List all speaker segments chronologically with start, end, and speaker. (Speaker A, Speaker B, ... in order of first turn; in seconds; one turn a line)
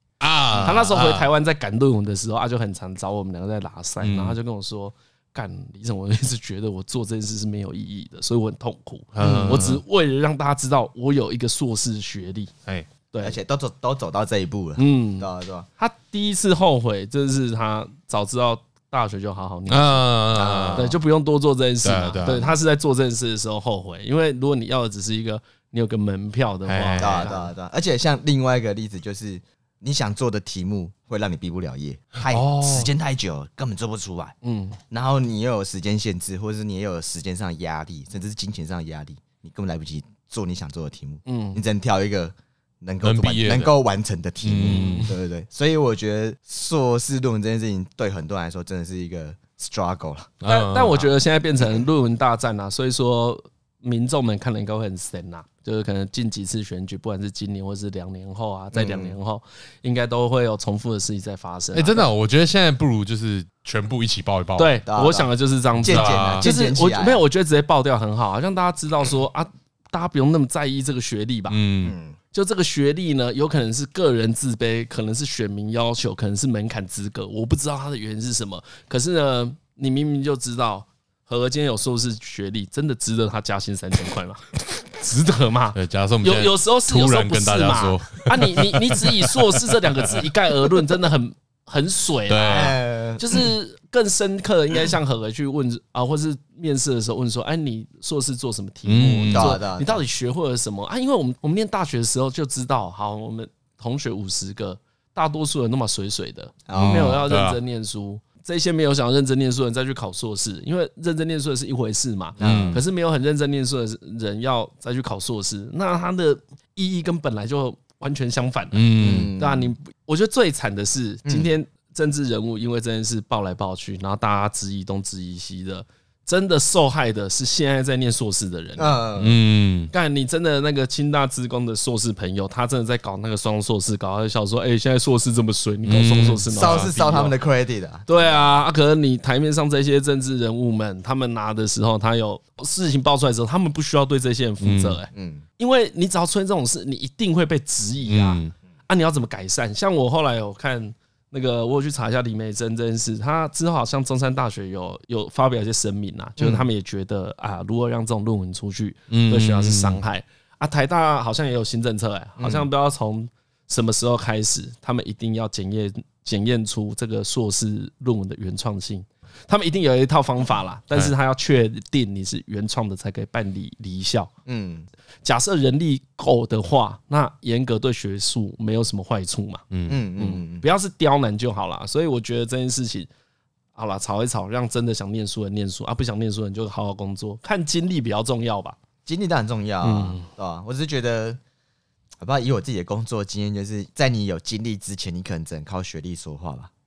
Speaker A: 0.2-1.3
Speaker B: 0.6-12.5
Speaker A: 4.0-4.4
Speaker A: 9.2-9.8
Speaker C: 9.2-9.7
Speaker B: 13.1-13.4
Speaker C: 13.2-15.7
Speaker B: 14.8-20.1
Speaker A: 19.7-20.9
Speaker C: 20.3-21.0
Speaker B: 20.8-27.5
Speaker A: 21.8-22.5
Speaker A: 26.7-27.3
Speaker C: 27.0-34.4
Speaker A: 32.3-32.9
Speaker B: 34.4-34.8
Speaker C: 34.9-50.3
Speaker B: 41.3-41.6
Speaker A: 43.0-43.7
Speaker A: 44.4-45.1
Speaker B: 44.6-45.1
Speaker A: 50.4-51.1
Speaker B: 50.5-62.1
Speaker C: 58.7-59.2
Speaker A: 61.7-64.8
Speaker B: 64.6-71.6
Speaker C: 64.9-67.2
Speaker A: 65.8-66.5
Speaker A: 71.5-72.0
Speaker C: 71.8-72.2
Speaker B: 72.3-129.0
Speaker A: 85.7-89.3
Speaker A: 92.3-92.8
Speaker C: 92.5-93.5
Speaker A: 98.9-99.6
Speaker C: 99.3-100.0
Speaker C: 106.7-107.2
Speaker A: 106.7-107.6
Speaker C: 112.4-112.8
Speaker A: 112.4-112.8
Speaker A: 118.7-119.3
Speaker C: 119.0-119.7
Speaker C: 121.2-121.5
Speaker C: 128.8-129.4
Speaker A: 129.2-129.9
Speaker B: 129.9-137.4
Speaker A: 135.9-136.9
Speaker C: 136.5-138.6
Speaker B: 138.1-174.3
Speaker A: 144.6-145.0
Speaker C: 145.1-145.4
Speaker A: 148.1-148.5
Speaker C: 156.4-156.7
Speaker A: 159.1-160.0
Speaker C: 162.4-162.7
Speaker C: 174.5-174.9
Speaker B: 175.2-179.7
Speaker A: 179.7-180.0
Speaker C: 179.9-180.7
Speaker B: 180.2-183.1
Speaker B: 183.8-188.8
Speaker C: 189.1-191.4
Speaker B: 189.8-190.3
Speaker C: 192.2-196.7